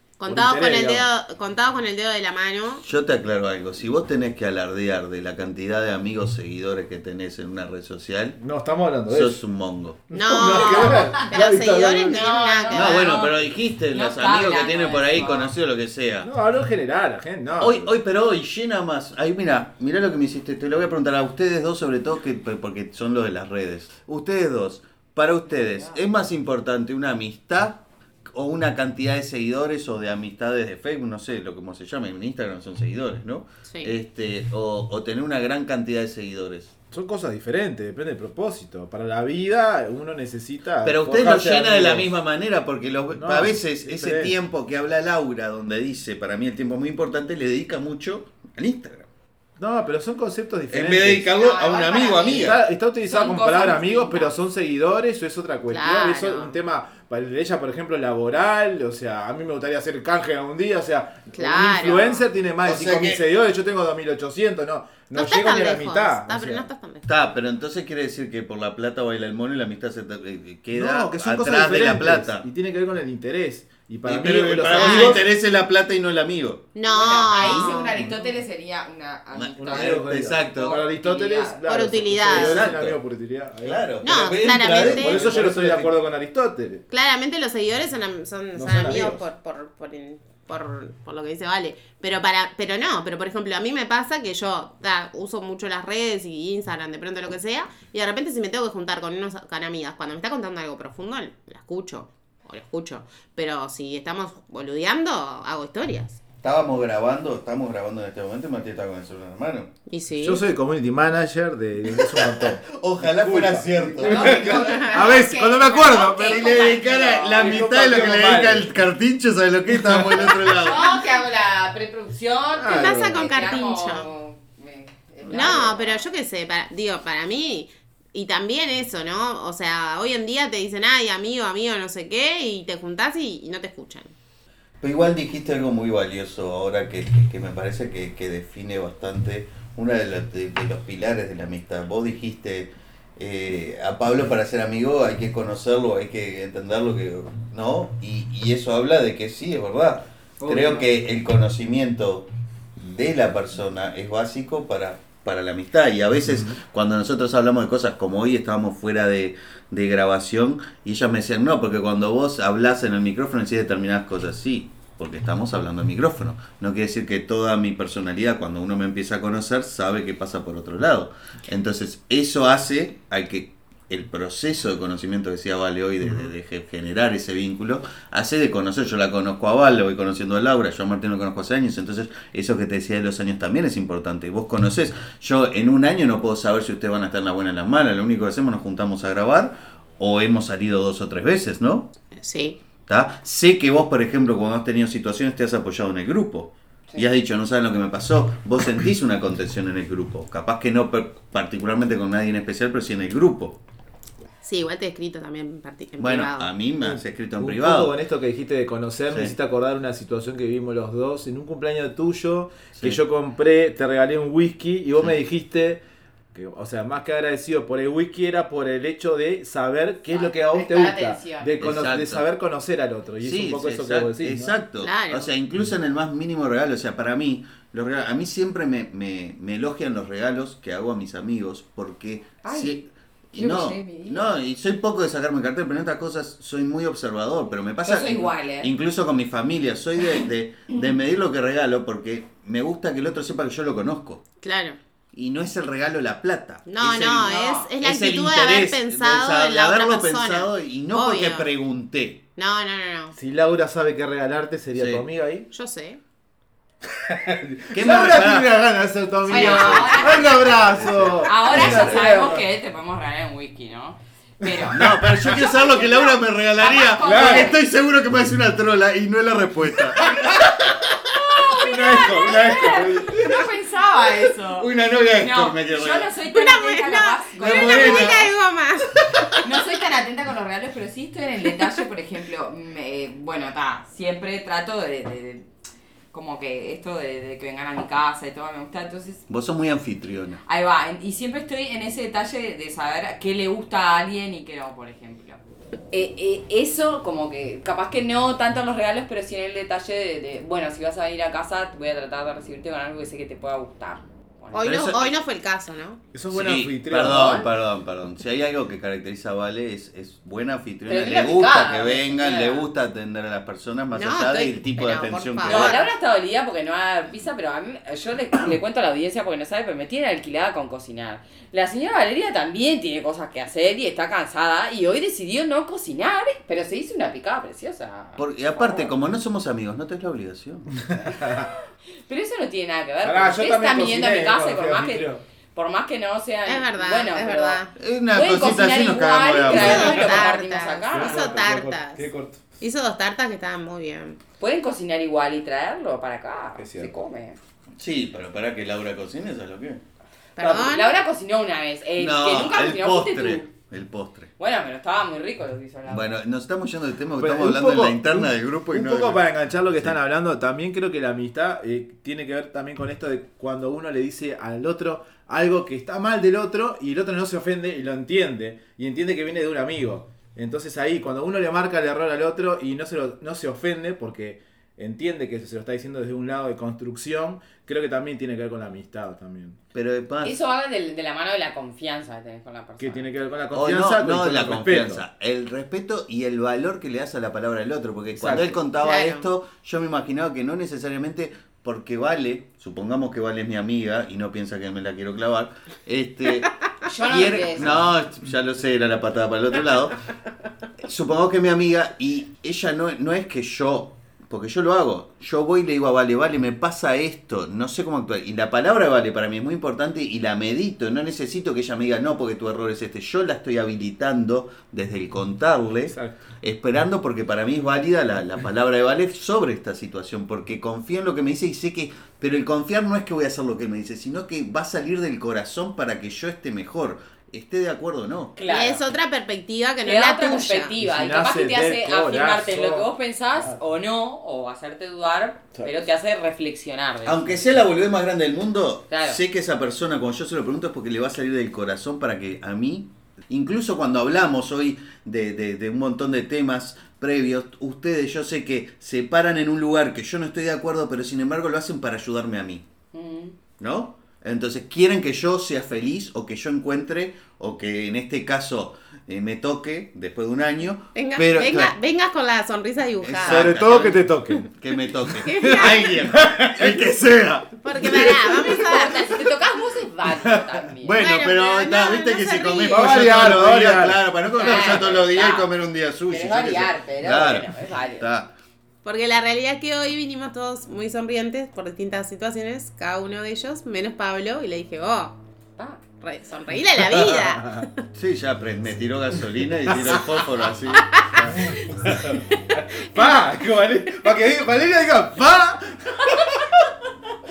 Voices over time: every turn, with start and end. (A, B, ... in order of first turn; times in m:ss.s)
0:00.2-0:02.8 A
0:00.2-0:01.1 B
0:02.8-0:08.4 C
0:08.4-0:09.4 B
0:09.1-0:10.0 C
0:10.1-0:12.2 B
0:10.1-0:13.2 A
0:10.5-0:11.2 D
0:12.1-0:15.5 D
0:12.7-0:16.3 C
0:16.2-0:17.9 B
0:17.6-0:36.7 C
0:33.6-0:33.9 A
0:36.9-0:42.1 B
0:40.8-0:49.1 C
0:43.1-0:44.3 B
0:49.6-0:51.3 B
0:50.7-0:52.6 C
0:51.3-0:52.5 A
0:51.5-0:52.3 D
0:52.2-1:06.7 B
0:53.0-0:54.3 D
0:55.7-0:56.6 A
1:01.3-1:02.2 A
1:02.6-1:03.2 C
1:05.1-1:07.1 A
1:07.0-1:12.5 C
1:10.7-1:15.3 B
1:14.0-1:16.7 C
1:14.7-1:15.2 A
1:16.7-1:18.0 A
1:16.9-1:21.6 D
1:17.4-1:18.2 C
1:19.3-1:20.8 C
1:19.6-1:26.8 B
1:21.6-1:22.6 A
1:22.3-1:23.0 C
1:23.6-1:25.9 C
1:24.0-1:25.3 A
1:26.9-1:46.2 A
1:28.5-1:29.2 B
1:46.4-1:49.7 C
1:49.9-1:50.4 A
1:50.2-1:56.5 B
1:51.9-1:54.9 C
1:54.0-1:57.3 A
1:54.1-1:57.6 D
1:56.2-2:01.0 C
1:57.2-1:58.7 B
1:59.7-2:00.4 B
2:00.5-2:06.0 D
2:02.5-2:03.3 B
2:02.7-2:04.1 A
2:05.3-2:14.1 A
2:14.8-3:11.9 C
2:30.4-2:30.9 D
3:12.2-3:12.6 A
3:12.9-3:23.6 C
3:24.4-3:26.5 A
3:26.0-3:28.0 C
3:26.8-3:35.8 B
3:29.1-3:29.3 C
3:32.7-3:33.0 C
3:36.3-3:44.6 B
3:40.1-3:41.5 D
3:41.6-3:42.2 C
3:43.2-4:04.2 C
3:44.8-3:45.3 A
3:52.4-3:52.8 D
3:53.3-3:54.3 D
3:57.8-3:58.7 D
4:04.4-4:04.8 A
4:05.1-4:12.2 C
4:06.6-4:11.5 A
4:07.2-4:07.7 D
4:12.4-4:13.1 A
4:13.2-4:15.5 B
4:14.7-4:15.0 C
4:15.5-4:16.0 A
4:16.9-4:22.5 B
4:17.7-4:18.7 C
4:19.3-4:20.4 D
4:19.3-4:22.1 C
4:19.3-4:20.2 A
4:21.2-4:25.0 D
4:24.4-4:25.5 B
4:24.7-4:31.1 C
4:25.8-4:27.6 D
4:27.0-4:27.6 B
4:30.1-4:30.5 B
4:31.1-4:38.3 D
4:31.5-4:33.4 B
4:34.5-4:36.1 C
4:36.3-4:39.4 A
4:37.4-4:38.3 C
4:39.4-4:45.5 D
4:46.1-4:49.2 D
4:49.3-4:50.4 C
4:50.4-5:04.7 D
5:04.5-5:06.0 A
5:04.6-5:05.2 C
5:06.1-5:07.5 B
5:06.3-5:15.8 C
5:07.1-5:07.4 D
5:10.9-5:12.6 D
5:13.9-5:15.9 A
5:15.4-5:28.9 D
5:28.2-5:30.8 C
5:31.2-5:31.5 B
5:31.2-5:41.5 D
5:33.0-5:35.2 B
5:36.4-5:37.7 A
5:37.8-5:40.2 C
5:39.5-5:42.1 A
5:39.6-5:40.0 B
5:40.9-5:42.4 B
5:42.6-5:44.2 A
5:44.4-5:47.4 D
5:46.6-5:46.9 B
5:47.8-5:49.8 C
5:50.4-5:50.9 A
5:50.4-5:50.7 B
5:50.4-5:53.5 D
5:52.0-5:54.3 C
5:54.4-5:56.1 D
5:55.9-6:00.0 C
5:57.2-6:19.6 B
6:19.7-6:20.4 C
6:20.2-6:23.1 D
6:22.8-6:25.0 B
6:23.5-6:40.0 C
6:28.2-6:28.6 B
6:28.8-6:29.3 A
6:36.8-6:37.9 D
6:40.8-7:08.4 C
6:55.9-6:56.2 B
7:08.4-7:08.8 D
7:08.5-7:10.7 A
7:09.8-7:17.2 D
7:10.8-7:13.6 B
7:17.0-7:32.6 C
7:18.9-7:19.2 D
7:32.9-7:33.4 D
7:33.6-7:41.7 C
7:40.9-7:43.6 A
7:43.0-7:48.3 C
7:43.2-7:44.5 B
7:45.1-7:46.9 B
7:45.2-7:45.8 A
7:47.6-7:49.0 A
7:48.4-7:51.0 D
7:50.2-7:50.5 B
7:50.8-7:58.3 C
7:51.0-7:53.0 A
7:52.7-7:54.0 B
7:54.4-7:55.5 D
7:56.1-7:58.0 D
7:58.8-8:05.2 A
8:06.0-8:07.7 A
8:06.9-8:07.7 B
8:07.9-8:11.3 C
8:10.9-8:11.8 A
8:11.2-8:16.5 B